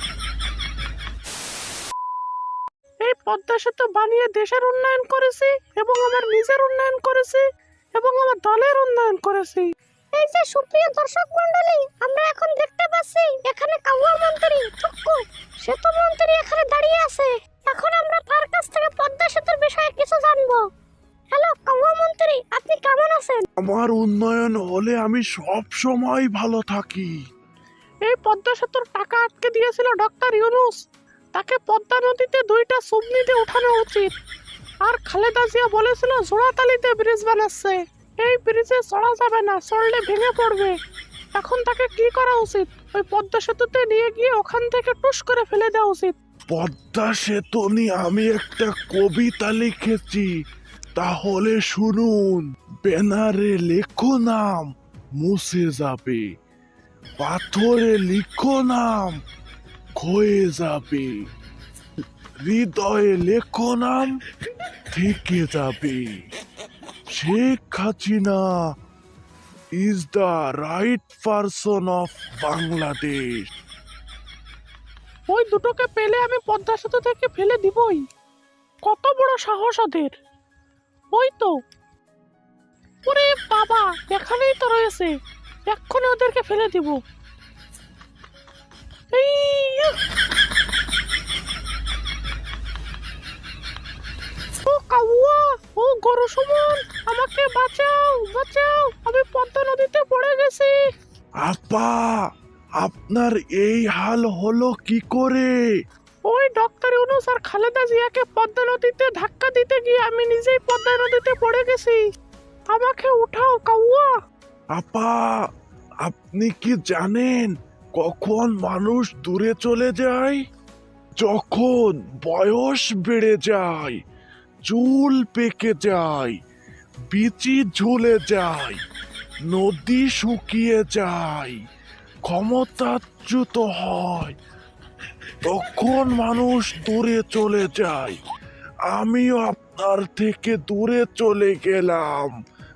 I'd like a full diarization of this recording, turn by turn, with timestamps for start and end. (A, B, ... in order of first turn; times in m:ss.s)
0:03.0-0:07.4 A
0:07.9-0:09.7 A
0:10.1-0:20.6 B
0:21.3-0:23.4 B
0:23.6-0:27.1 C
0:28.0-0:30.8 A
0:31.3-0:34.1 A
0:34.8-0:40.8 A
0:41.3-0:46.1 A
0:46.5-0:50.3 C
0:51.0-0:56.2 C
0:57.2-0:59.2 C
1:00.0-1:01.1 C
1:02.4-1:04.2 C
1:04.9-1:06.1 C
1:07.1-1:08.5 C
1:09.8-1:13.5 C
1:15.3-1:18.0 A
1:18.8-1:20.1 A
1:21.1-1:21.5 A
1:23.0-1:25.1 A
1:25.7-1:27.0 A
1:29.1-1:30.0 A
1:34.6-1:40.7 A
1:41.4-1:42.2 C
1:42.8-1:45.5 C
1:46.3-1:52.0 A
1:52.7-1:54.1 A
1:54.7-1:55.3 C
1:56.0-2:00.4 C
2:01.2-2:04.0 C
2:04.6-2:06.4 C
2:07.1-2:08.8 C
2:09.5-2:11.6 C
2:12.2-2:14.4 C
2:15.4-2:18.2 C
2:18.9-2:22.3 C